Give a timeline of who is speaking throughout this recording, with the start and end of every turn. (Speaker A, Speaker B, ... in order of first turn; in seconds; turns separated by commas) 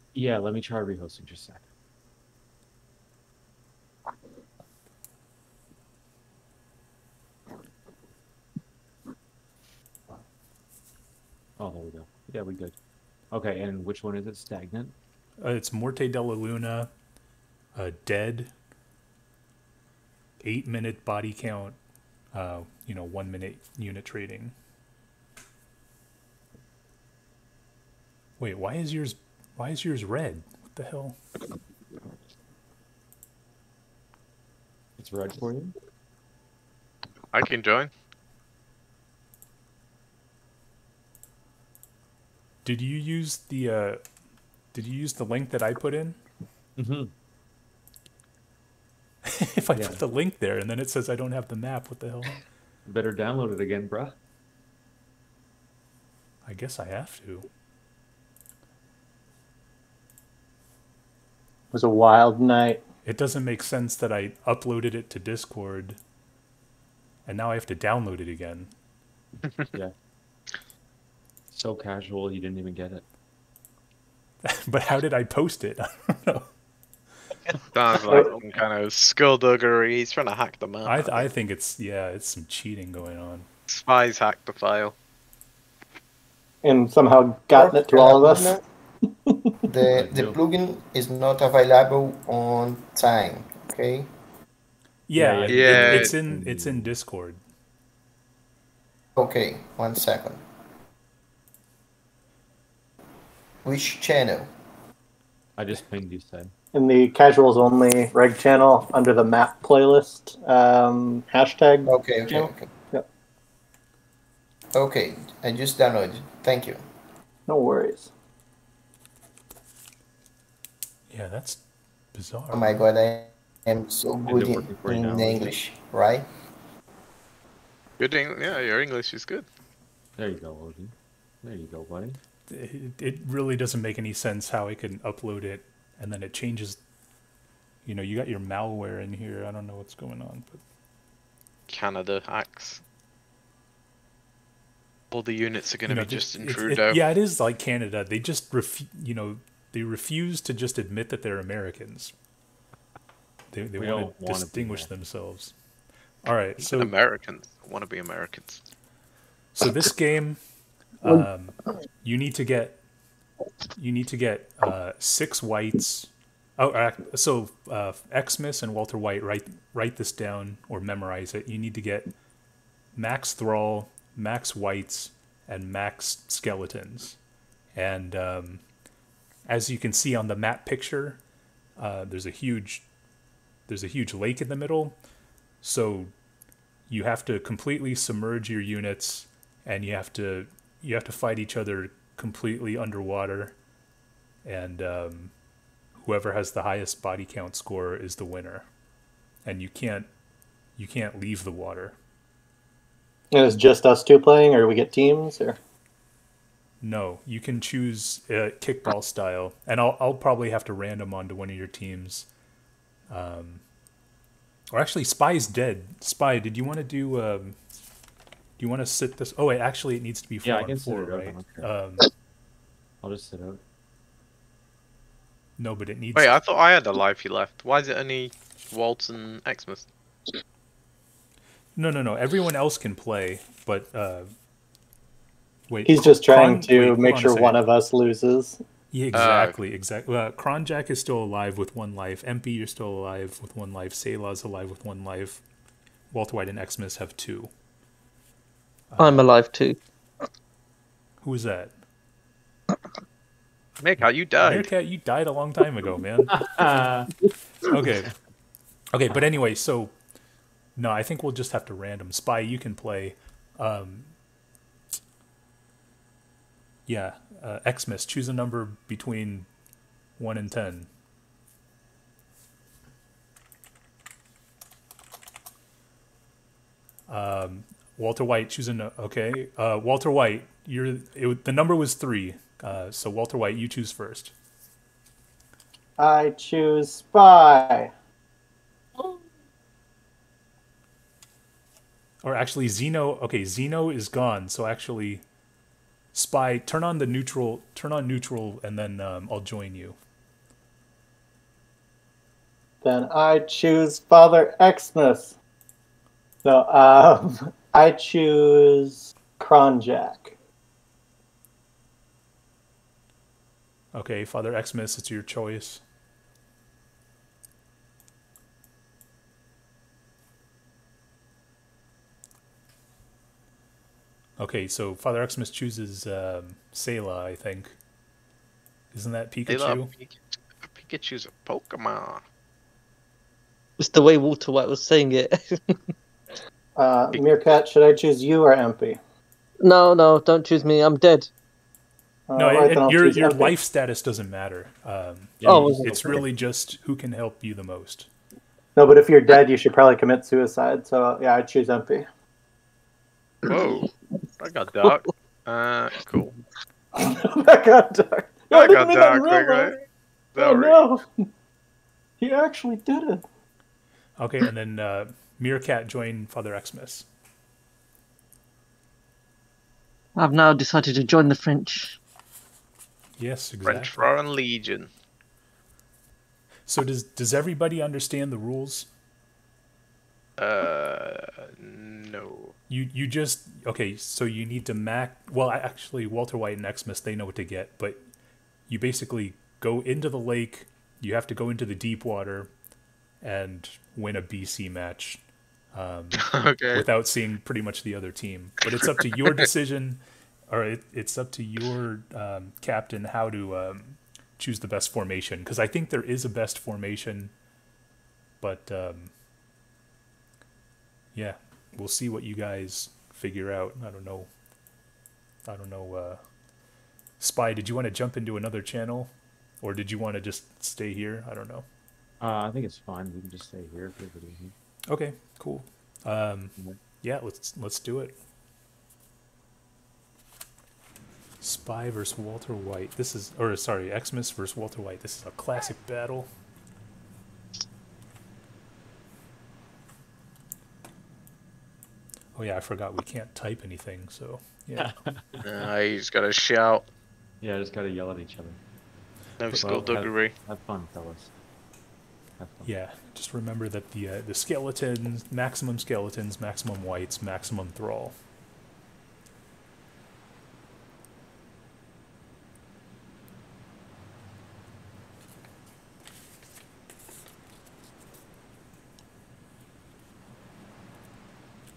Speaker A: 0.1-1.7, Speaker A: 11.6-12.8, Speaker A: 13.3-15.0, Speaker B: 15.4-16.9, Speaker B: 17.7-18.5, Speaker B: 20.4-21.8, Speaker B: 22.3-24.5, Speaker B: 28.4-31.2, Speaker A: 35.0-35.8, Speaker C: 37.3-37.9, Speaker B: 42.6-44.0, Speaker B: 44.7-46.2, Speaker A: 46.8-47.1, Speaker B: 49.3-52.4, Speaker A: 49.8-50.0, Speaker A: 52.9-54.2, Speaker B: 56.5-57.5, Speaker D: 61.7-62.8, Speaker B: 63.0-66.0, Speaker B: 67.3-68.7, Speaker A: 71.5-73.0, Speaker B: 74.4-76.5, Speaker C: 77.6-81.3, Speaker B: 80.8-83.5, Speaker C: 83.7-85.0, Speaker D: 86.6-88.6, Speaker E: 87.5-88.6, Speaker D: 89.3-89.5, Speaker E: 89.7-94.1, Speaker A: 89.9-90.4, Speaker B: 95.1-97.4, Speaker A: 95.2-96.9, Speaker C: 95.5-96.2, Speaker E: 99.2-100.4, Speaker E: 103.6-104.5, Speaker A: 105.6-106.5, Speaker D: 106.7-113.1, Speaker E: 111.9-112.7, Speaker E: 114.7-116.8, Speaker D: 117.5-118.1, Speaker B: 121.1-121.6, Speaker B: 122.1-122.8, Speaker E: 122.5-126.3, Speaker A: 124.2-125.6, Speaker C: 128.0-129.5, Speaker A: 130.2-132.2, Speaker B: 132.5-136.8, Speaker B: 137.9-140.6, Speaker C: 141.7-142.8, Speaker C: 145.1-147.0, Speaker B: 145.9-152.1, Speaker B: 153.5-155.5, Speaker A: 153.8-154.9, Speaker B: 156.2-156.9, Speaker C: 156.6-158.6, Speaker B: 159.6-160.4, Speaker B: 161.0-162.8, Speaker B: 163.8-172.1, Speaker B: 172.9-177.2, Speaker B: 177.7-178.6, Speaker B: 179.5-181.2, Speaker B: 181.8-182.8, Speaker B: 183.7-185.0, Speaker B: 185.6-186.1, Speaker B: 186.9-193.6, Speaker B: 194.4-195.3, Speaker B: 196.0-198.7, Speaker B: 199.4-200.1, Speaker B: 200.8-202.0, Speaker D: 203.3-205.6, Speaker B: 206.8-212.3, Speaker B: 213.1-213.6, Speaker B: 214.7-217.6, Speaker B: 218.6-222.1, Speaker A: 220.4-221.7, Speaker A: 223.0-223.6, Speaker B: 225.6-226.3, Speaker C: 226.2-229.9, Speaker B: 231.8-234.3, Speaker B: 235.7-237.6, Speaker D: 235.8-238.6, Speaker B: 238.9-245.4, Speaker C: 239.1-239.6, Speaker B: 246.1-247.5, Speaker B: 248.9-249.2, Speaker F: 249.0-249.8, Speaker B: 251.2-251.7, Speaker C: 253.8-254.7, Speaker B: 254.4-256.7, Speaker A: 256.3-257.1, Speaker B: 257.6-258.1, Speaker A: 257.8-258.1, Speaker B: 258.9-259.9, Speaker B: 260.8-264.1, Speaker B: 266.9-269.5, Speaker B: 270.2-270.9, Speaker B: 277.1-284.3, Speaker D: 286.0-287.9, Speaker B: 292.2-295.2, Speaker B: 296.1-300.0, Speaker D: 302.8-305.4, Speaker D: 306.4-310.4, Speaker B: 313.9-315.8, Speaker B: 324.4-327.8, Speaker B: 328.9-329.9, Speaker C: 329.5-330.2, Speaker C: 330.7-332.2, Speaker F: 333.8-335.6, Speaker D: 336.8-339.0, Speaker F: 339.6-341.3, Speaker D: 342.3-343.6, Speaker B: 342.4-348.1, Speaker A: 345.4-346.3, Speaker F: 345.5-346.0, Speaker D: 348.8-352.1, Speaker F: 353.4-353.9, Speaker C: 353.5-353.9, Speaker C: 354.4-356.3, Speaker D: 356.9-359.8, Speaker C: 358.5-359.8, Speaker C: 360.4-360.8, Speaker D: 360.4-361.3, Speaker D: 362.2-363.2, Speaker B: 364.2-367.1, Speaker F: 370.2-372.0, Speaker B: 373.2-374.1, Speaker C: 373.6-374.9, Speaker B: 376.7-378.9, Speaker C: 380.4-382.6, Speaker B: 382.7-388.0, Speaker B: 388.7-392.5, Speaker B: 393.2-395.2, Speaker B: 395.7-407.3, Speaker C: 396.2-396.8, Speaker C: 398.7-399.5, Speaker B: 408.4-409.1, Speaker B: 411.1-414.3, Speaker B: 415.5-416.2, Speaker B: 417.2-421.7, Speaker A: 422.2-424.5, Speaker B: 424.9-428.2, Speaker B: 431.4-436.3, Speaker B: 442.4-444.9, Speaker A: 444.8-445.4, Speaker C: 445.4-446.9, Speaker A: 447.4-448.6, Speaker C: 449.4-450.3, Speaker A: 449.5-451.3, Speaker A: 452.4-452.7, Speaker B: 452.6-458.2